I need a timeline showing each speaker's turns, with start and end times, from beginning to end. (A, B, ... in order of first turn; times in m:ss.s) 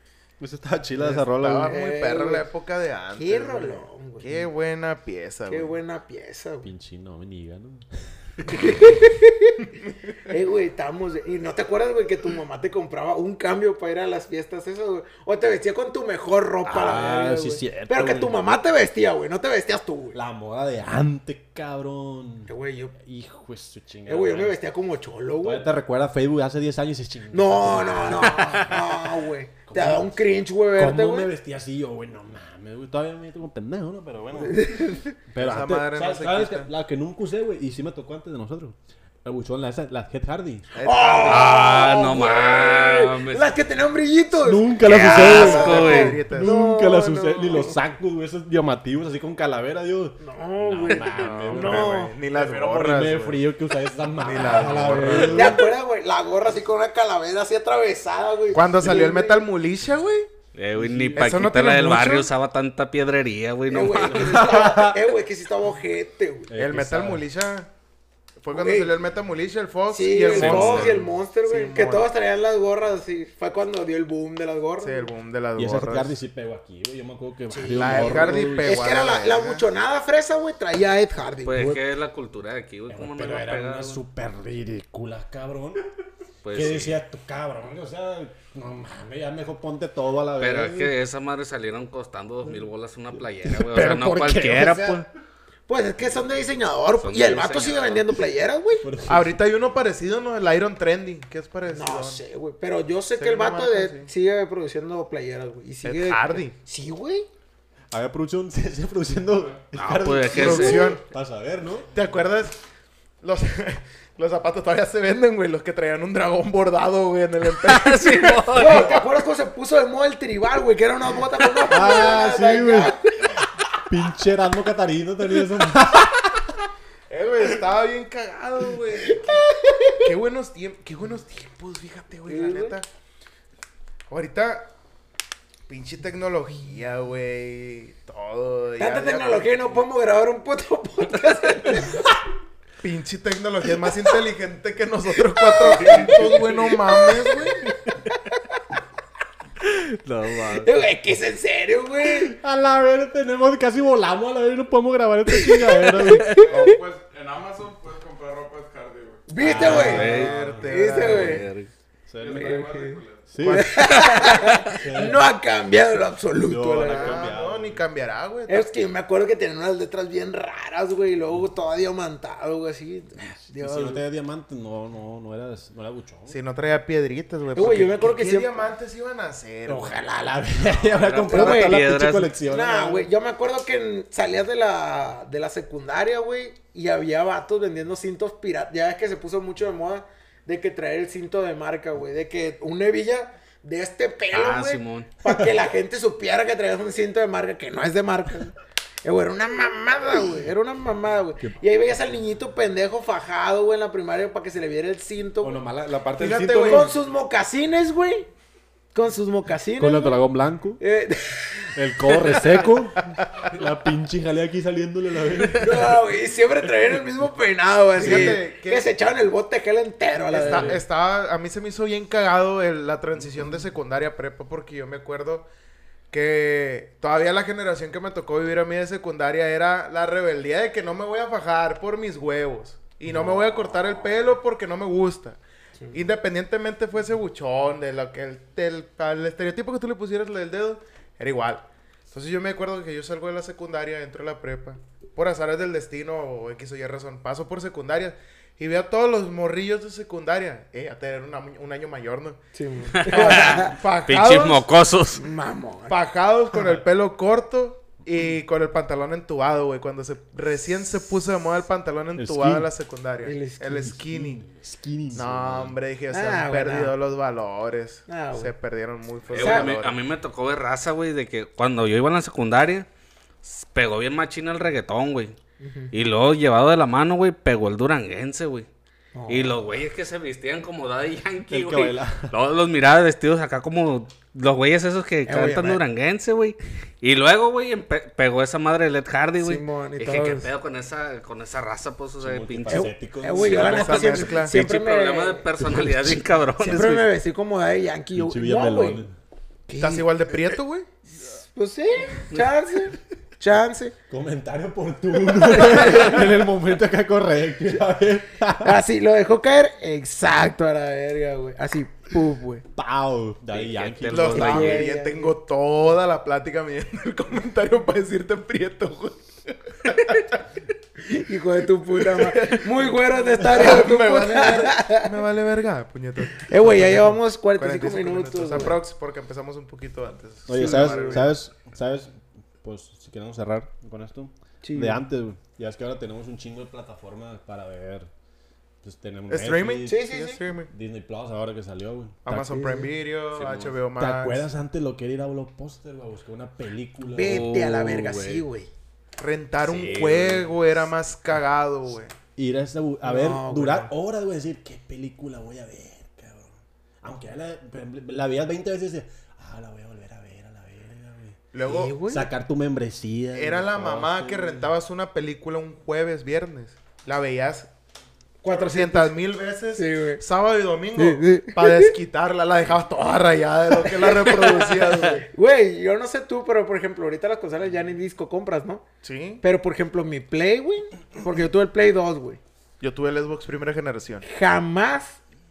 0:00.4-0:01.8 A
0:01.0-0:05.8 B
0:01.6-0:02.5 C
0:03.2-0:04.3 C
0:05.5-0:06.7 C
0:06.6-0:08.5 A
0:08.5-0:09.6 C
0:10.3-0:20.2 C
0:16.6-0:18.4 A
0:20.1-0:24.6 A
0:22.5-0:23.0 C
0:24.1-0:25.8 C
0:25.4-0:29.1 A
0:27.3-0:31.3 C
0:29.7-0:40.7 A
0:34.4-0:35.2 C
0:35.4-0:36.7 B
0:40.7-0:41.8 B
0:40.8-0:47.8 C
0:41.2-0:43.6 D
0:44.4-0:55.7 A
0:44.8-0:46.2 D
0:45.2-0:46.6 B
0:50.2-0:52.2 C
0:51.2-0:53.4 B
0:54.2-0:55.7 B
0:54.5-0:59.5 C
0:58.5-1:00.3 B
1:00.6-1:04.7 D
1:00.8-1:01.6 A
1:01.2-1:02.3 B
1:03.7-1:06.5 C
1:04.1-1:05.0 A
1:06.5-1:07.2 A
1:06.6-1:07.7 B
1:08.4-1:12.1 B
1:08.5-1:08.9 C
1:09.9-1:15.1 C
1:10.3-1:11.0 A
1:10.3-1:10.8 D
1:14.8-1:16.2 B
1:15.6-1:18.9 A
1:17.5-1:21.8 C
1:17.7-1:19.7 B
1:21.4-1:24.0 D
1:22.9-1:25.9 A
1:26.4-1:27.0 D
1:26.5-1:31.0 A
1:30.4-1:35.0 D
1:33.4-1:35.1 A
1:35.7-1:38.9 C
1:37.0-1:38.1 D
1:38.8-1:39.4 A
1:39.1-1:42.2 B
1:41.7-1:47.3 C
1:43.2-1:44.1 B
1:45.8-1:46.6 B
1:47.9-1:51.9 A
1:49.8-1:51.0 D
1:50.3-1:51.0 B
1:51.9-1:52.6 B
1:53.2-1:59.0 B
1:57.4-1:59.0 D
1:58.5-2:03.4 C
2:01.7-2:03.0 A
2:03.8-2:06.7 A
2:07.1-2:09.4 B
2:09.0-2:10.1 C
2:10.0-2:12.9 B
2:12.3-2:12.8 C
2:14.1-2:14.7 B
2:15.7-2:19.8 B
2:18.8-2:22.1 C
2:22.8-2:27.6 B
2:25.3-2:28.8 C
2:29.6-2:30.7 D
2:30.5-2:32.4 C
2:32.1-2:36.3 A
2:35.5-2:36.8 C
2:36.4-2:39.3 E
2:39.3-2:41.5 C
2:39.4-2:41.4 A
2:39.4-2:40.3 D
2:39.5-2:41.4 B
2:41.0-2:41.7 D
2:42.1-2:42.6 A
2:42.2-2:43.5 E
2:42.3-2:47.3 C
2:43.3-2:44.1 A
2:43.4-2:44.0 B
2:43.8-2:44.8 D
2:44.7-2:45.2 A
2:46.4-2:47.9 A
2:46.8-2:48.7 B
2:48.5-2:54.0 C
2:53.5-2:56.4 A
2:56.3-3:00.0 B
2:57.5-2:58.6 C
2:59.7-3:03.1 A
3:00.9-3:02.3 D
3:01.3-3:01.8 C
3:02.5-3:25.6 C
3:14.3-3:15.1 D
3:25.4-3:26.9 A
3:26.1-3:26.9 B
3:26.6-3:28.3 C
3:28.9-3:30.2 C
3:29.8-3:30.8 A
3:30.8-3:32.7 C
3:31.7-3:36.0 A
3:35.6-3:40.8 C
3:38.0-3:38.9 B
3:38.0-3:38.3 A
3:40.3-3:45.5 B
3:40.3-3:40.8 A
3:46.1-3:55.4 B
3:55.9-4:12.4 B
4:12.5-4:13.8 C
4:13.0-4:14.6 B
4:13.0-4:15.2 D
4:15.2-4:16.0 C
4:15.9-4:24.4 B
4:22.2-4:22.7 A
4:23.2-4:24.0 C
4:23.8-4:25.8 A
4:25.1-4:30.0 B
4:26.1-4:27.0 C
4:28.1-4:28.5 C
4:29.3-4:32.9 D
4:29.3-4:29.8 C
4:33.4-4:35.4 D
4:35.6-4:35.9 C
4:35.9-4:38.7 D
4:39.1-4:39.6 C
4:39.3-4:52.9 D
4:41.5-4:42.3 A
4:45.3-4:45.8 C
4:49.4-4:50.5 C
4:52.2-4:54.0 A
4:52.7-4:55.9 C
4:53.4-4:54.6 B
4:53.4-4:57.0 D
4:55.6-4:56.2 A
4:56.6-4:59.0 C
4:58.1-4:59.2 A
4:59.7-5:00.6 C
4:59.8-5:00.9 B
5:01.1-5:04.0 C
5:04.1-5:08.8 A
5:05.4-5:06.2 C
5:08.6-5:12.6 C
5:12.8-5:14.9 A
5:13.5-5:14.8 D
5:14.1-5:20.4 B
5:14.3-5:15.4 C
5:21.0-5:25.1 C
5:22.0-5:27.0 B
5:26.4-5:28.8 C
5:27.6-5:31.3 B
5:30.5-5:38.1 A
5:30.5-5:31.3 C
5:34.6-5:35.0 C
5:38.8-5:40.1 A
5:39.3-5:40.7 B
5:39.9-5:40.4 C
5:40.7-5:42.6 A
5:42.3-5:44.5 B
5:42.5-5:42.9 C
5:43.4-5:43.8 D
5:43.4-5:48.4 A
5:47.1-5:48.7 C
5:47.3-5:47.8 D
5:49.2-5:52.1 B
5:49.6-5:50.5 D
5:52.4-6:01.4 A
5:53.0-5:53.9 C
6:01.5-6:02.0 B
6:01.6-6:02.3 C
6:02.0-6:04.7 A
6:03.4-6:07.7 B
6:08.4-6:09.2 C
6:08.5-6:15.3 B
6:09.8-6:10.2 C
6:11.0-6:12.0 C
6:13.8-6:18.8 C
6:19.0-6:19.4 B
6:19.4-6:22.4 C
6:22.8-6:24.3 B
6:24.3-6:25.2 C